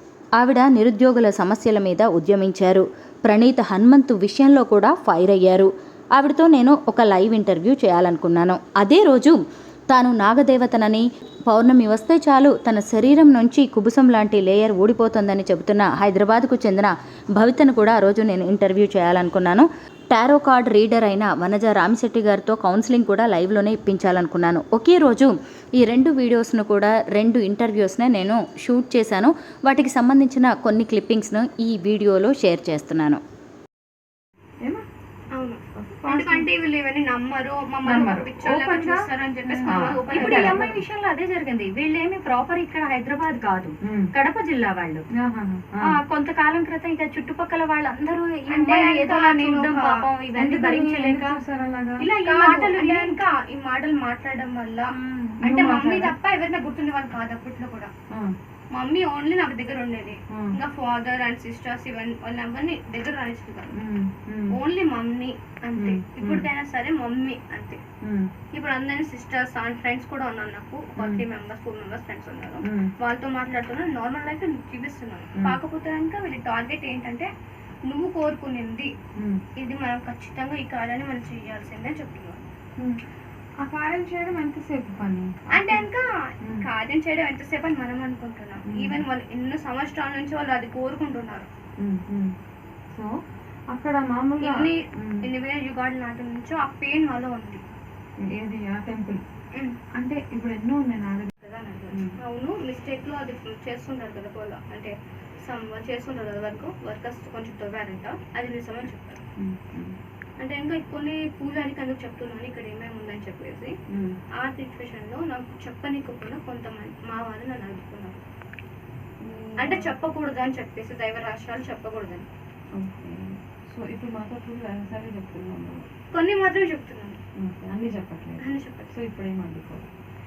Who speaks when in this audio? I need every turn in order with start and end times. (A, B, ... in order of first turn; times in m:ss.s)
0:00.4-0:09.4 A
0:09.9-0:33.2 A
0:35.4-0:40.7 B
0:35.7-0:36.5 C
0:37.8-0:40.8 C
0:40.2-0:45.0 D
0:43.8-0:44.1 C
0:45.2-0:46.0 C
0:45.9-0:51.4 D
0:48.5-0:49.9 B
0:50.4-0:52.0 C
0:52.0-0:54.9 B
0:52.2-0:53.2 D
0:55.0-0:55.3 D
0:55.4-0:56.1 C
0:55.4-0:57.9 B
0:58.7-1:03.8 B
1:03.8-1:04.6 C
1:04.5-1:07.8 B
1:05.8-1:06.5 C
1:08.5-1:17.3 B
1:11.0-1:11.2 C
1:17.9-1:18.9 B
1:19.6-1:22.4 B
1:23.6-1:25.9 C
1:25.5-1:26.1 B
1:26.6-1:31.5 B
1:28.7-1:29.0 C
1:31.8-1:32.3 C
1:33.7-1:35.2 C
1:34.4-1:37.6 B
1:38.3-1:39.2 C
1:40.0-1:41.3 C
1:41.4-1:49.2 B
1:49.4-1:50.0 C
1:50.4-1:53.7 B
1:53.9-1:54.2 C
1:54.4-1:58.2 B
1:59.2-2:00.0 C
1:59.6-2:02.3 B
2:02.8-2:05.9 C
2:06.1-2:07.2 B
2:07.4-2:09.9 C
2:08.4-2:08.9 B